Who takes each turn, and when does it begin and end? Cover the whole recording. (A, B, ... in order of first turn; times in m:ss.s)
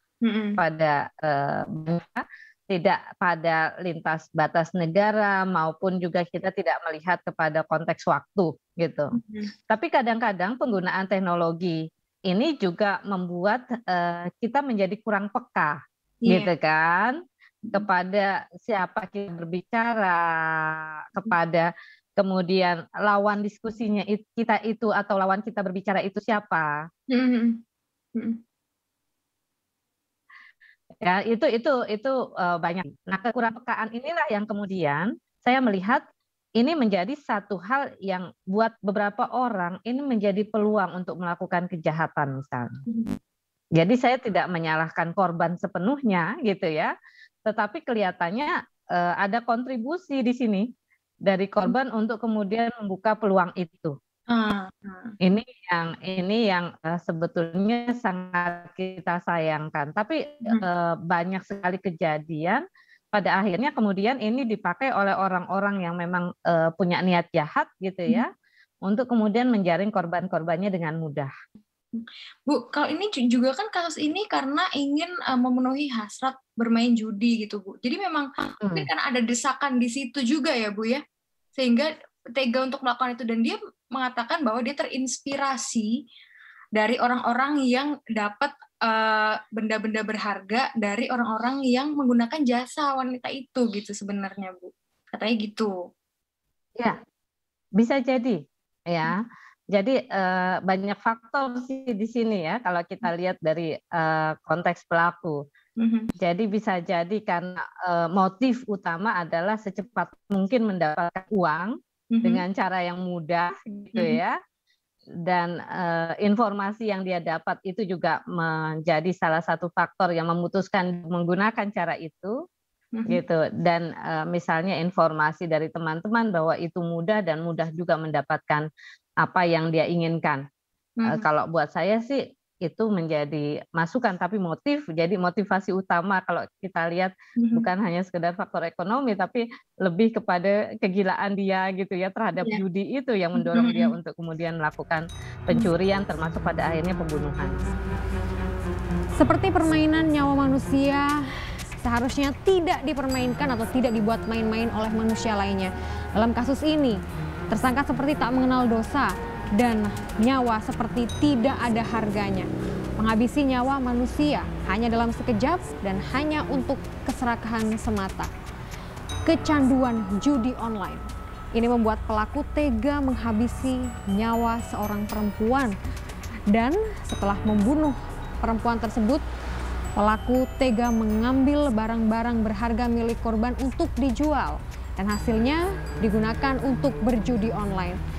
0:00.2-0:00.6 A
0:00.6-0:09.2 B
0:09.1-0:09.6 A
0:09.7-0:11.8 B
0:12.3-0:15.8 B
0:16.2-0:16.5 A
0:16.3-0:17.2 B
0:17.8-0:26.7 B
0:27.1-0:27.6 A
0:28.1-0:28.4 A
0:31.0-0:36.0 B
0:36.6-0:42.7 B
0:42.9-0:43.2 A
0:43.8-0:46.9 B
0:47.4-0:50.7 B
0:51.2-0:53.9 B
0:54.3-0:55.2 A
0:55.2-1:02.6 B
1:03.1-1:08.3 B
1:08.8-1:11.3 B
1:11.9-1:21.0 A
1:21.5-1:26.0 A
1:26.7-1:35.9 A
1:37.8-1:39.2 B
1:39.7-1:45.4 B
1:45.8-1:46.1 A
1:46.2-1:54.3 B
1:52.1-1:52.4 A
1:53.9-1:54.2 A
1:55.3-2:02.3 B
2:02.9-2:03.2 A
2:03.1-2:08.6 B
2:09.2-2:10.4 B
2:11.0-2:11.3 A
2:11.0-2:27.6 B
2:17.4-2:17.7 A
2:22.4-2:22.6 A
2:23.3-2:24.0 A
2:29.2-2:31.2 C
2:31.8-2:37.0 C
2:37.5-2:48.3 C
2:49.2-2:55.7 C
2:56.5-2:59.2 C
3:00.0-3:08.0 C